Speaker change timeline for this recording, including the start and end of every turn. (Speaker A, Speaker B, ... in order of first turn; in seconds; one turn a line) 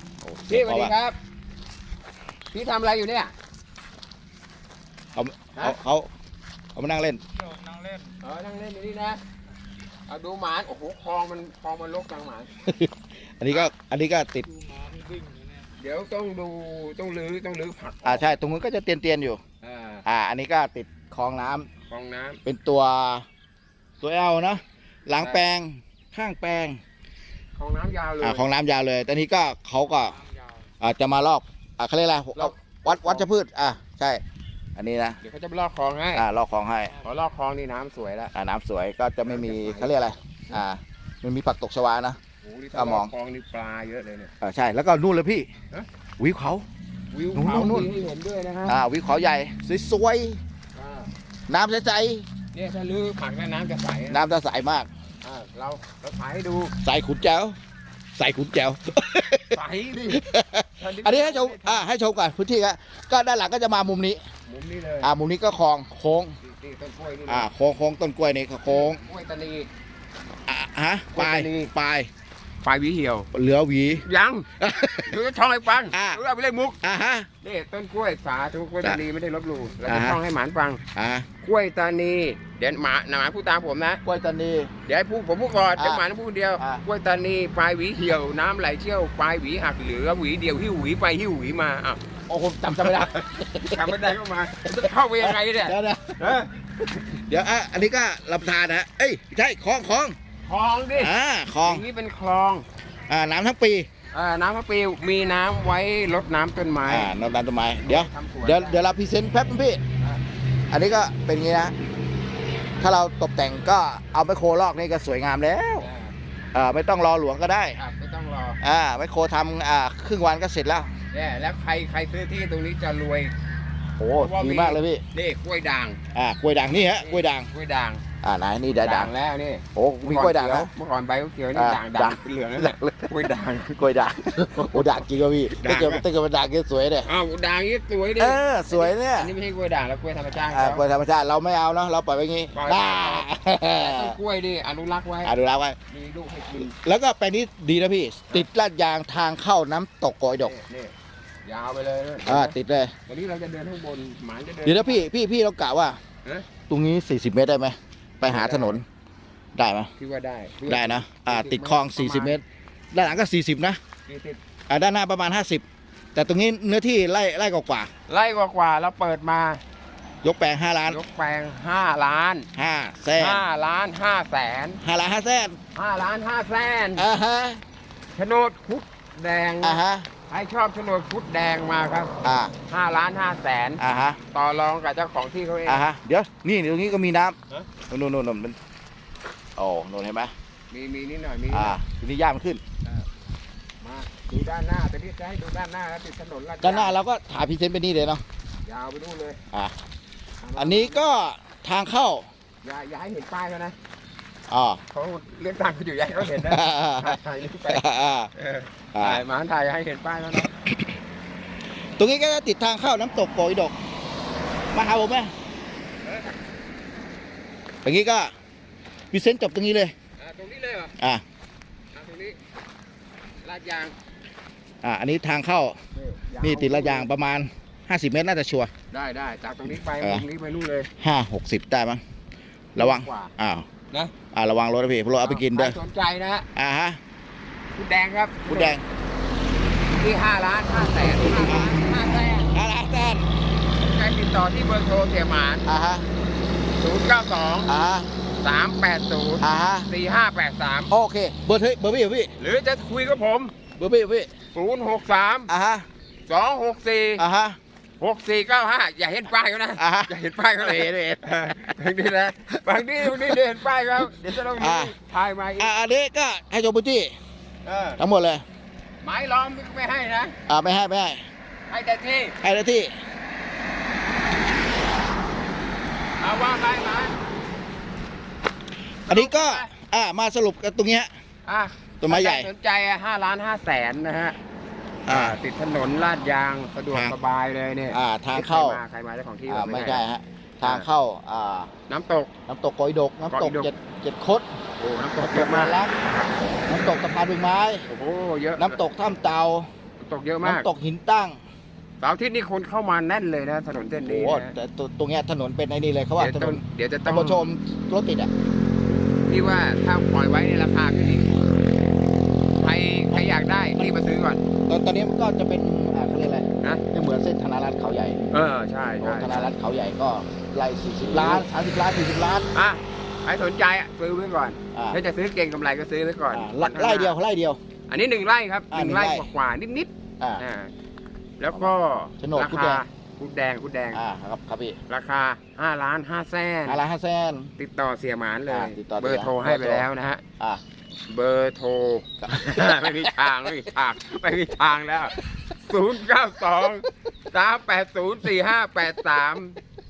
Speaker A: 0.2-0.9
Speaker B: 0.5-1.2
Speaker B: 2.5-3.3
Speaker A: 5.2-6.1
Speaker A: 6.8-7.2
Speaker B: 8.2-9.2
Speaker B: 10.1-12.5
Speaker A: 12.7-14.6
Speaker B: 15.8-18.3
Speaker A: 18.0-19.4
Speaker B: 19.6-20.0
Speaker A: 20.1-21.7
Speaker B: 21.9-22.4
Speaker A: 22.4-23.2
Speaker A: 24.0-26.8
Speaker B: 25.2-25.5
Speaker B: 27.6-28.4
Speaker A: 28.2-30.2
Speaker A: 30.8-34.2
Speaker B: 32.4-33.3
Speaker A: 34.8-35.2
Speaker B: 35.2-36.2
Speaker A: 36.1-36.9
Speaker B: 37.0-38.3
Speaker A: 38.3-42.2
Speaker B: 39.2-40.0
Speaker B: 42.4-44.3
Speaker A: 42.7-43.1
Speaker A: 44.4-45.5
Speaker A: 46.2-46.6
Speaker B: 47.1-48.8
Speaker A: 47.3-47.9
Speaker A: 48.6-50.4
Speaker B: 50.7-51.1
Speaker A: 51.5-52.2
Speaker B: 52.5-54.2
Speaker A: 54.1-54.9
Speaker B: 55.2-56.7
Speaker A: 56.8-57.5
Speaker A: 58.1-59.6
Speaker B: 59.5-60.2
Speaker A: 60.1-64.2
Speaker B: 60.8-61.9
Speaker B: 64.5-65.1
Speaker A: 65.0-66.3
Speaker B: 66.4-67.5
Speaker A: 67.3-69.0
Speaker B: 68.7-69.7
Speaker A: 70.5-72.1
Speaker B: 71.1-71.7
Speaker B: 72.6-73.3
Speaker A: 73.3-74.0
Speaker B: 74.0-74.5
Speaker A: 74.6-75.2
Speaker B: 75.0-76.8
Speaker A: 75.9-76.2
Speaker A: 76.8-77.3
Speaker B: 77.4-80.8
Speaker A: 79.8-80.2
Speaker A: 80.9-81.3
Speaker B: 81.4-84.0
Speaker A: 84.0-84.7
Speaker B: 84.8-92.0
Speaker A: 85.8-86.0
Speaker A: 86.6-86.8
Speaker A: 92.3-94.1
Speaker B: 92.8-97.0
Speaker A: 94.6-96.4
Speaker A: 97.2-100.2
Speaker B: 100.4-102.6
Speaker A: 100.9-101.8
Speaker A: 103.1-103.9
Speaker B: 104.1-107.1
Speaker A: 106.8-109.8
Speaker B: 107.8-108.8
Speaker A: 110.7-111.7
Speaker A: 112.8-115.9
Speaker B: 115.8-116.1
Speaker A: 116.5-117.8
Speaker B: 117.8-118.6
Speaker A: 118.6-120.9
Speaker B: 121.1-123.3
Speaker A: 124.0-125.0
Speaker B: 124.2-126.0
Speaker A: 126.1-127.5
Speaker B: 126.9-128.0
Speaker A: 128.2-129.1
Speaker B: 128.7-133.8
Speaker A: 129.7-130.7
Speaker A: 131.5-133.2
Speaker A: 133.7-137.1
Speaker B: 135.5-136.0
Speaker B: 137.0-140.8
Speaker A: 138.2-139.3
Speaker A: 140.5-144.2
Speaker B: 142.5-145.3
Speaker A: 145.2-145.8
Speaker B: 145.9-146.7
Speaker A: 146.5-150.5
Speaker B: 150.4-150.9
Speaker B: 151.4-152.5
Speaker A: 152.2-152.9
Speaker B: 153.1-155.1
Speaker A: 154.6-156.0
Speaker A: 156.7-158.8
Speaker B: 158.2-158.8
Speaker A: 159.6-159.9
Speaker B: 160.0-162.4
Speaker A: 160.7-163.8
Speaker B: 164.1-164.4
Speaker A: 164.7-165.6
Speaker A: 166.1-167.9
Speaker B: 168.1-169.6
Speaker A: 170.2-171.0
Speaker B: 170.9-172.5
Speaker A: 172.6-173.4
Speaker B: 173.1-174.8
Speaker A: 174.8-175.6
Speaker B: 175.7-177.1
Speaker A: 177.0-177.6
Speaker B: 178.1-182.1
Speaker A: 179.6-180.1
Speaker A: 182.2-182.5
Speaker B: 182.7-183.8
Speaker A: 183.8-184.2
Speaker B: 184.3-185.9
Speaker A: 185.7-187.4
Speaker A: 187.9-188.6
Speaker A: 189.6-190.3
Speaker B: 190.7-191.8
Speaker A: 191.5-192.6
Speaker B: 193.8-196.9
Speaker A: 196.6-198.2
Speaker B: 198.7-199.4
Speaker B: 200.4-201.1
Speaker A: 200.6-202.3
Speaker B: 202.6-203.7
Speaker A: 204.5-204.8
Speaker B: 204.9-207.8
Speaker A: 206.2-208.3
Speaker B: 208.3-210.5
Speaker A: 208.9-209.2
Speaker A: 210.5-210.9
Speaker A: 212.0-213.7
Speaker A: 214.7-215.3
Speaker B: 216.0-216.3
Speaker A: 217.8-218.3
Speaker A: 219.1-219.9
Speaker B: 220.2-220.9
Speaker B: 221.9-222.4
Speaker B: 223.4-223.9
Speaker A: 224.8-225.8
Speaker B: 225.9-227.1
Speaker A: 226.4-228.7
Speaker B: 228.9-230.9
Speaker A: 230.0-230.2
Speaker A: 231.0-232.0
Speaker A: 232.7-233.6
Speaker B: 232.8-233.3
Speaker A: 234.3-235.8
Speaker B: 235.2-236.5
Speaker A: 236.6-237.0
Speaker B: 237.7-238.8
Speaker A: 238.5-238.8
Speaker B: 239.9-242.5
Speaker A: 241.2-241.8
Speaker A: 242.5-243.3
Speaker B: 243.7-245.7
Speaker A: 245.7-246.1
Speaker B: 246.7-247.7
Speaker A: 247.7-248.1
Speaker B: 248.4-250.9
Speaker A: 249.4-249.9
Speaker A: 250.9-252.3
Speaker B: 252.4-253.5
Speaker A: 253.8-254.3
Speaker B: 254.5-255.5
Speaker A: 255.5-255.8
Speaker B: 256.3-257.2
Speaker A: 257.2-257.6
Speaker B: 258.0-265.7
Speaker A: 259.8-261.2
Speaker A: 263.0-263.3
Speaker A: 264.2-264.9
Speaker A: 265.6-267.1
Speaker B: 267.6-268.0
Speaker A: 268.0-268.4
Speaker B: 269.0-270.3
Speaker A: 270.5-271.2
Speaker B: 271.7-272.4
Speaker A: 272.4-272.9
Speaker B: 276.2-277.2
Speaker B: 279.1-279.7
Speaker A: 279.1-281.1
Speaker B: 281.4-284.4
Speaker A: 282.0-282.5
Speaker A: 285.1-285.4
Speaker B: 285.1-290.0
Speaker A: 287.9-288.8
Speaker A: 289.5-291.7
Speaker B: 291.9-292.3
Speaker A: 292.5-294.5
Speaker B: 293.3-293.7
Speaker B: 294.8-295.8
Speaker A: 295.2-295.9
Speaker A: 296.7-297.9
Speaker B: 297.9-298.8
Speaker A: 298.6-299.7
Speaker B: 300.0-300.7
Speaker A: 300.4-301.4
Speaker B: 302.0-304.5
Speaker A: 304.0-308.3
Speaker B: 306.2-307.5
Speaker B: 309.3-311.4
Speaker B: 312.6-314.4
Speaker A: 313.1-313.9
Speaker A: 314.7-318.2
Speaker B: 318.3-319.5
Speaker A: 319.0-322.5
Speaker B: 321.0-321.5
Speaker B: 322.5-327.1
Speaker A: 324.7-325.0
Speaker A: 326.3-327.6
Speaker B: 327.9-330.7
Speaker A: 328.7-329.3
Speaker B: 331.4-334.0
Speaker A: 331.5-332.8
Speaker A: 333.9-334.8
Speaker B: 334.9-336.8
Speaker A: 336.6-337.5
Speaker B: 337.6-340.2
Speaker A: 338.5-339.9
Speaker B: 341.1-349.6
Speaker A: 342.2-343.3